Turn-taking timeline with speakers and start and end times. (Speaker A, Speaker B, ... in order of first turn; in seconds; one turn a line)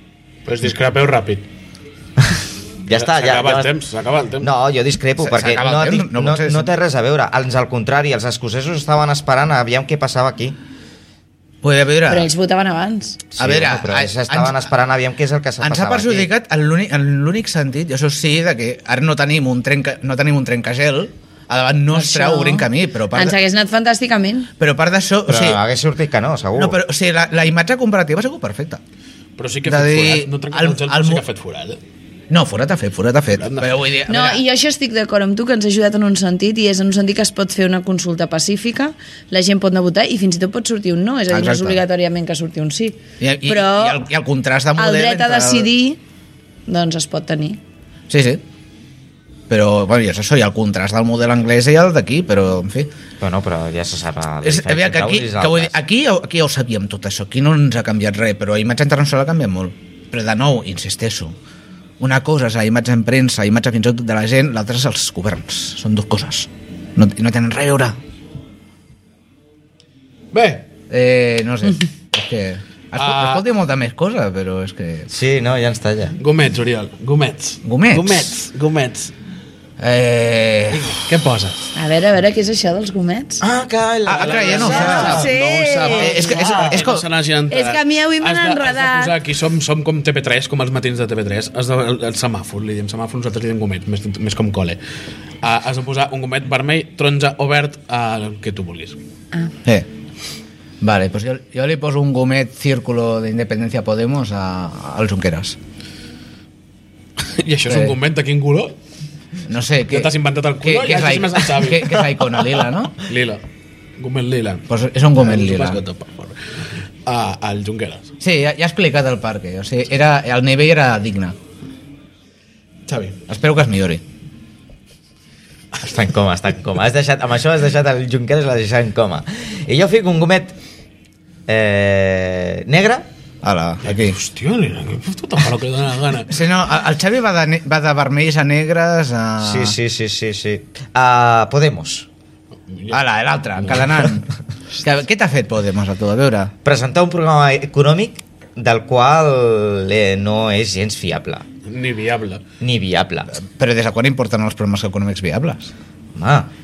Speaker A: 0.5-1.4
Speaker B: 2.8-3.7
Speaker A: 2.9-4.5
Speaker B: 4.4-10.6
Speaker C: 5.2-6.7
Speaker C: 11.6-12.3
Speaker D: 12.1-13.2
Speaker B: 13.3-16.3
Speaker C: 13.4-14.7
Speaker C: 15.6-23.4
Speaker D: 21.9-24.5
Speaker C: 24.6-25.6
Speaker B: 25.3-26.7
Speaker C: 26.5-28.8
Speaker A: 29.4-31.8
Speaker C: 29.6-31.2
Speaker C: 32.3-34.4
Speaker A: 33.4-33.8
Speaker D: 34.1-44.0
Speaker C: 41.3-41.8
Speaker C: 43.2-45.7
Speaker D: 44.8-46.0
Speaker D: 46.7-47.6
Speaker C: 48.1-48.4
Speaker C: 49.5-52.9
Speaker B: 53.2-55.7
Speaker C: 54.4-61.3
Speaker C: 62.0-67.9
Speaker A: 70.3-70.7
Speaker C: 70.9-75.1
Speaker A: 73.0-73.4
Speaker B: 75.1-76.2
Speaker A: 76.2-79.1
Speaker C: 77.6-78.3
Speaker C: 79.8-80.9
Speaker A: 80.7-81.6
Speaker D: 81.7-83.4
Speaker B: 83.4-85.3
Speaker C: 84.0-85.2
Speaker A: 84.1-94.8
Speaker D: 84.5-86.3
Speaker B: 85.8-86.8
Speaker C: 85.8-87.0
Speaker D: 87.5-89.1
Speaker A: 95.4-99.0
Speaker C: 100.8-105.6
Speaker A: 107.2-108.8
Speaker C: 107.7-107.9
Speaker C: 109.5-110.1
Speaker A: 109.9-112.1
Speaker C: 110.6-113.0
Speaker A: 113.0-113.4
Speaker A: 114.0-114.7
Speaker C: 114.7-115.8
Speaker A: 115.2-118.1
Speaker C: 118.2-121.3
Speaker A: 122.9-123.2
Speaker C: 123.3-124.0
Speaker B: 125.8-130.6
Speaker B: 131.5-133.1
Speaker C: 133.4-134.2
Speaker A: 133.8-136.3
Speaker C: 136.3-139.8
Speaker B: 139.4-142.1
Speaker A: 142.7-143.0
Speaker C: 142.9-146.5
Speaker B: 146.6-151.4
Speaker A: 151.7-152.4
Speaker B: 152.6-153.3
Speaker C: 153.3-155.7
Speaker B: 156.1-156.5